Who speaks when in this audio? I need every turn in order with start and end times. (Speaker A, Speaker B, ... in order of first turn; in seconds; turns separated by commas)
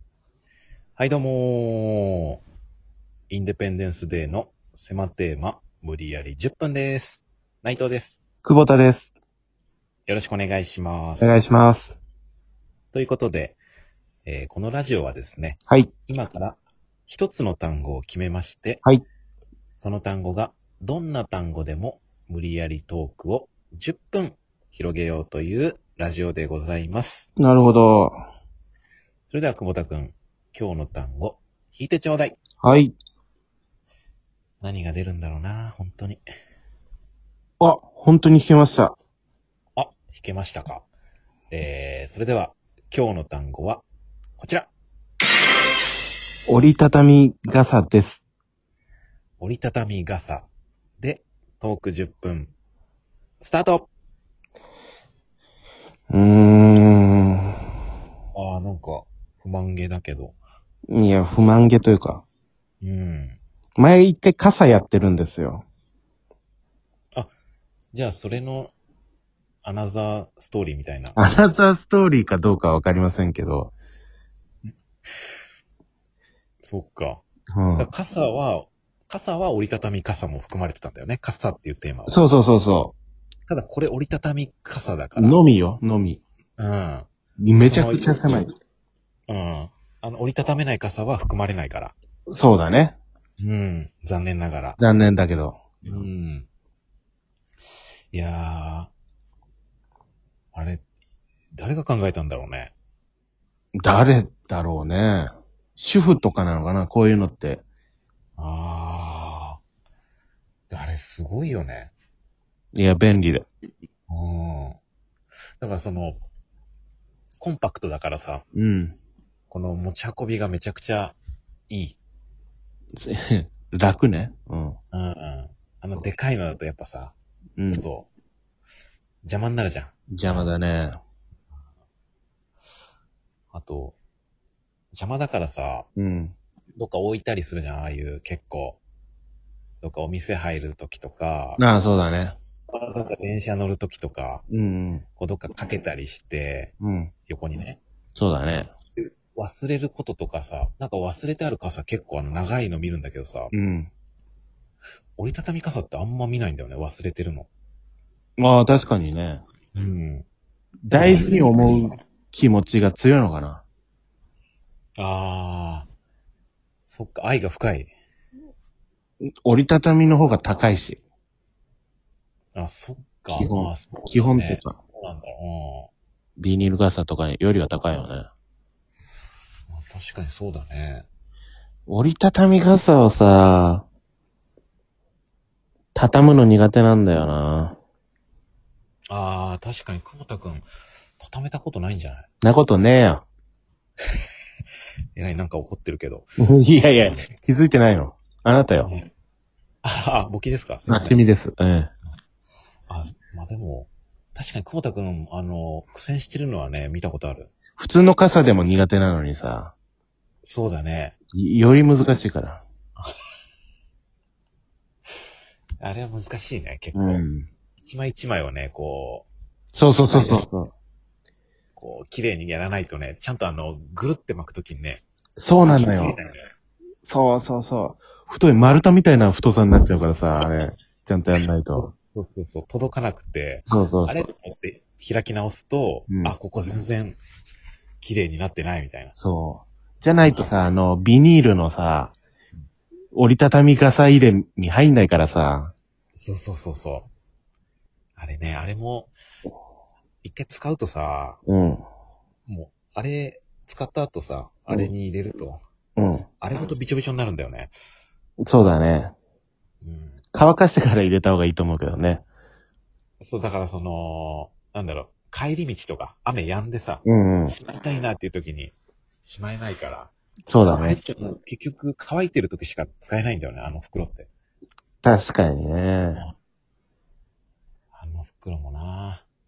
Speaker A: 1.0-2.4, Speaker A: 3.3-8.2, Speaker B: 8.4-9.1, Speaker A: 10.1-11.4, Speaker B: 11.2-12.0, Speaker A: 12.9-13.6, Speaker A: 14.2-18.8, Speaker A: 19.8-27.3, Speaker B: 27.4-28.1, Speaker A: 29.3-32.4, Speaker B: 32.6-32.9, Speaker A: 34.6-36.2, Speaker B: 37.6-39.0, Speaker A: 39.8-40.9, Speaker A: 41.5-43.8, Speaker A: 44.4-44.7, Speaker B: 46.5-48.2, Speaker A: 49.4-50.5, Speaker A: 51.0-52.5, Speaker A: 53.4-53.9, Speaker B: 56.1-57.6, Speaker A: 58.3-60.4, Speaker B: 60.9-62.2, Speaker A: 62.8-63.4, Speaker B: 63.8-65.6, Speaker A: 67.9-68.7, Speaker A: 69.6-71.2, Speaker B: 71.2-73.8, Speaker A: 76.6-77.2, Speaker B: 77.5-77.9, Speaker A: 77.8-82.2, Speaker B: 82.1-83.0, Speaker A: 83.5-85.4, Speaker B: 85.2-86.2, Speaker A: 86.6-87.1, Speaker B: 87.4-88.5, Speaker A: 87.7-88.1, Speaker A: 89.3-91.9, Speaker B: 92.3-93.0, Speaker A: 93.4-94.8, Speaker B: 94.8-96.1, Speaker A: 95.8-96.5, Speaker A: 98.1-98.9, Speaker A: 100.5-100.8, Speaker A: 101.5-102.7, Speaker B: 103.8-107.6, Speaker A: 108.4-109.6, Speaker A: 110.7-111.9, Speaker B: 112.8-113.5, Speaker A: 114.1-114.8, Speaker A: 115.6-116.2, Speaker A: 117.4-118.4, Speaker B: 118.5-119.0, Speaker A: 119.5-121.2, Speaker A: 121.7-122.0, Speaker B: 123.0-124.8, Speaker A: 124.9-127.2, Speaker B: 127.6-127.8, Speaker A: 127.7-128.1, Speaker A: 129.2-130.5, Speaker B: 130.1-131.0, Speaker A: 133.5-134.0, Speaker A: 134.9-135.9, Speaker B: 136.0-136.3, Speaker A: 136.8-138.8, Speaker A: 139.8-141.6, Speaker B: 141.6-142.4, Speaker A: 142.7-144.4, Speaker B: 144.5-145.0, Speaker A: 145.2-146.7, Speaker B: 146.8-147.1, Speaker A: 147.3-147.8, Speaker B: 148.2-148.7, Speaker A: 149.0-153.5, Speaker B: 153.5-153.9, Speaker A: 155.2-157.5, Speaker B: 158.4-159.4, Speaker A: 159.7-160.3, Speaker B: 160.9-163.6, Speaker A: 161.0-161.8, Speaker A: 165.0-165.9, Speaker A: 166.9-167.9, Speaker B: 169.4-171.0, Speaker A: 172.6-175.9, Speaker B: 173.3-174.8, Speaker B: 176.4-178.3, Speaker A: 179.7-181.1, Speaker B: 181.9-183.9, Speaker B: 185.9-187.8, Speaker A: 189.1-190.7, Speaker A: 191.2-192.3, Speaker B: 192.4-193.2, Speaker A: 195.2-196.3, Speaker B: 196.4-198.9, Speaker A: 199.8-201.2, Speaker B: 200.9-201.9, Speaker A: 202.9-207.5, Speaker B: 207.8-209.7, Speaker A: 210.4-211.2, Speaker B: 211.3-212.6, Speaker A: 215.8-217.3, Speaker B: 216.9-217.5, Speaker A: 217.8-219.3, Speaker B: 219.7-220.7, Speaker A: 220.1-220.4, Speaker A: 221.8-225.0, Speaker B: 225.4-226.2, Speaker A: 225.7-226.4, Speaker B: 227.1-231.9, Speaker A: 231.7-237.2, Speaker B: 233.7-234.2, Speaker B: 236.1-236.4, Speaker A: 238.0-239.2, Speaker B: 239.2-242.1, Speaker B: 243.1-245.7, Speaker A: 246.2-247.1, Speaker A: 248.2-249.1, Speaker A: 250.2-251.4, Speaker B: 251.5-251.8, Speaker A: 252.5-255.6, Speaker B: 256.0-256.3, Speaker A: 256.4-257.7, Speaker B: 258.4-259.1, Speaker A: 259.8-260.2, Speaker B: 260.3-262.2, Speaker A: 263.2-270.1, Speaker B: 267.1-267.6, Speaker B: 270.5-271.0, Speaker A: 270.7-274.3, Speaker B: 275.0-276.2, Speaker A: 277.9-279.2